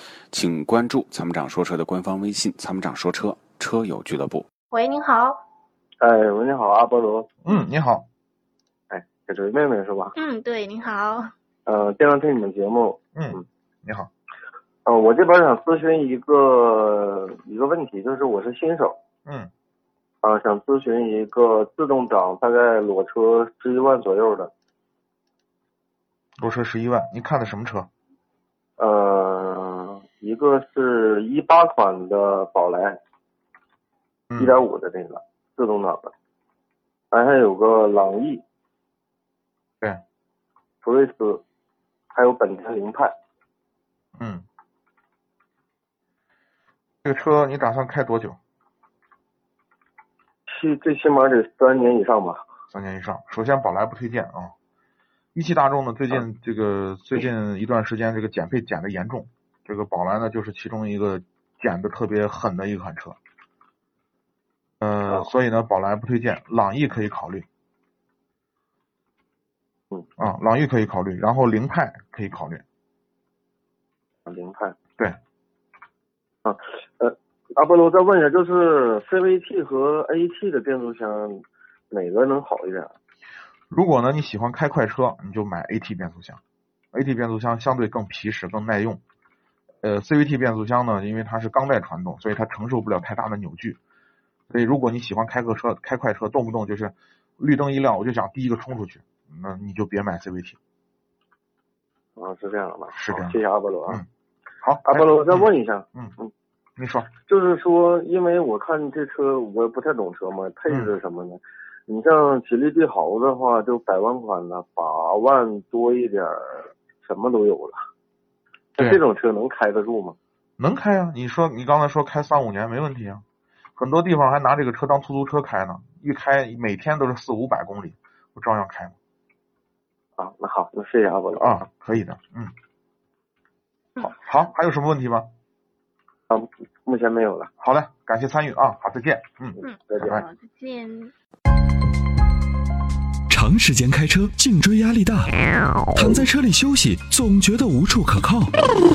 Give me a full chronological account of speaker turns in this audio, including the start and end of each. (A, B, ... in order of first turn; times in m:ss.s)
0:00.3-0:04.4 A
0:04.7-0:05.4 B
0:06.0-0:07.3 C
0:07.4-0:08.1 D
0:08.9-0:10.1 C
0:10.2-0:11.3 B
0:11.6-0:13.4 C
0:13.1-0:14.1 D
0:14.8-0:19.0 C
0:19.2-0:19.5 D
0:20.2-0:24.5 C
0:26.4-0:27.9 D
0:28.8-0:33.0 C
0:34.3-0:34.6 D
0:34.4-0:36.1 C
0:37.1-0:38.4 C
0:40.8-0:41.4 C
0:42.1-0:43.1 C
0:44.2-0:44.4 D
0:47.0-0:48.4 D
0:50.5-0:52.4 C
0:52.7-0:54.5 D
0:55.3-1:03.2 D
1:04.8-1:07.5 D
1:10.2-1:12.6 D
1:14.2-1:14.8 C
1:16.4-1:23.0 C
1:23.7-1:26.4 D
1:26.9-1:29.0 D
1:29.8-1:33.8 D
1:34.5-1:40.6 D
1:42.2-1:44.0 C
1:42.9-1:44.0 D
1:44.6-1:46.1 D
1:44.8-1:46.3 C
1:46.8-1:47.1 D
1:47.1-1:57.8 C
1:50.7-1:50.9 D
1:58.8-2:00.2 C
2:00.6-2:03.2 D
2:03.8-2:09.0 D
2:10.2-2:11.6 C
2:11.4-2:12.5 D
2:14.0-2:15.3 D
2:16.3-2:17.5 C
2:17.6-2:20.2 D
2:19.6-2:20.2 C
2:19.6-2:21.1 B
2:23.3-2:25.3 E
2:25.9-2:28.5 E